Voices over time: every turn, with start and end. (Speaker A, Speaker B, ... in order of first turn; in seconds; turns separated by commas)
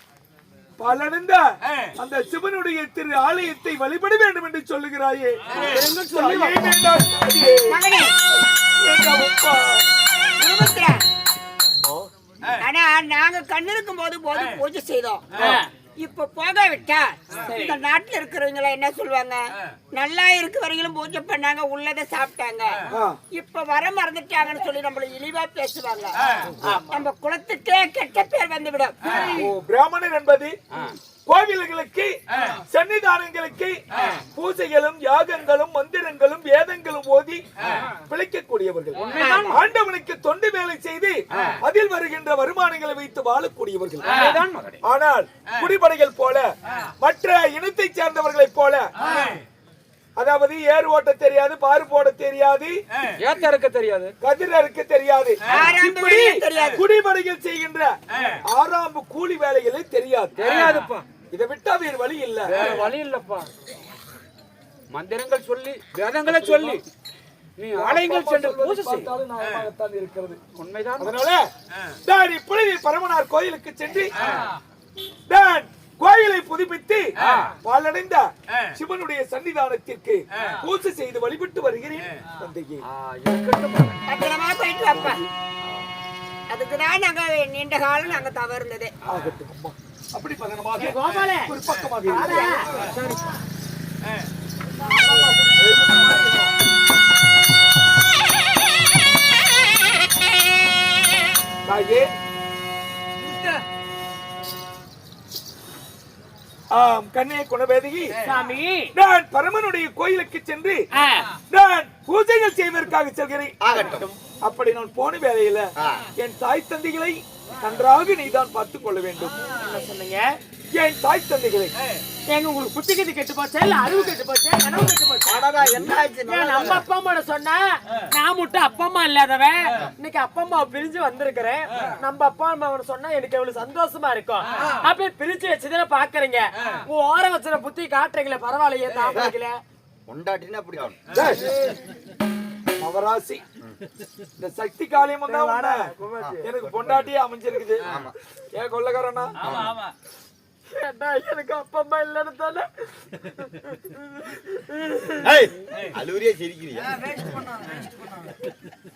Speaker A: 0.8-7.8, Speaker B: 5.5-6.8, Speaker C: 7.7-8.1, Speaker A: 8.6-9.8, Speaker C: 10.4-11.0, Speaker A: 11.8-12.1, Speaker C: 12.6-15.2, Speaker D: 15.3-15.7, Speaker C: 16.0-26.2, Speaker D: 17.4-17.8, Speaker A: 22.9-23.2, Speaker D: 26.6-26.9, Speaker C: 26.7-29.1, Speaker A: 29.2-30.6, Speaker A: 31.2-37.4, Speaker A: 37.9-44.2, Speaker B: 39.0-39.6, Speaker D: 39.0-39.4, Speaker C: 39.2-39.5, Speaker B: 44.0-44.8, Speaker A: 44.8-46.5, Speaker A: 47.0-48.9, Speaker A: 50.2-52.8, Speaker B: 53.2-54.1, Speaker A: 54.2-60.4, Speaker C: 55.5-56.8, Speaker B: 60.4-61.0, Speaker A: 61.3-62.6, Speaker B: 62.5-63.5, Speaker B: 64.9-66.8, Speaker A: 66.3-66.8, Speaker B: 67.6-69.1, Speaker A: 67.7-70.4, Speaker B: 70.5-71.1, Speaker A: 71.0-74.1, Speaker A: 75.3-82.8, Speaker B: 77.2-77.5, Speaker B: 82.8-84.0, Speaker C: 84.1-85.2, Speaker A: 84.8-85.3, Speaker C: 86.5-88.9, Speaker A: 89.1-92.9, Speaker D: 90.8-92.7, Speaker C: 92.2-92.6, Speaker B: 92.7-93.3, Speaker D: 94.8-96.5, Speaker A: 101.6-102.1, Speaker A: 106.7-108.1, Speaker D: 108.2-108.9, Speaker A: 108.9-110.8, Speaker D: 111.0-111.3, Speaker A: 111.5-113.6, Speaker E: 113.6-114.0, Speaker D: 113.7-114.1, Speaker A: 114.4-119.4, Speaker E: 115.8-116.1, Speaker D: 119.5-120.4, Speaker A: 120.7-121.7, Speaker D: 122.3-139.6, Speaker E: 125.2-126.8, Speaker E: 139.1-139.3, Speaker E: 140.1-141.0, Speaker A: 141.1-141.5, Speaker A: 142.8-143.4, Speaker A: 144.4-145.9, Speaker D: 145.2-146.4, Speaker A: 146.4-147.9, Speaker E: 147.8-148.1, Speaker A: 148.5-149.3, Speaker E: 149.4-149.8, Speaker D: 149.4-149.9, Speaker D: 150.7-155.2, Speaker E: 155.2-157.1, Speaker D: 157.0-158.3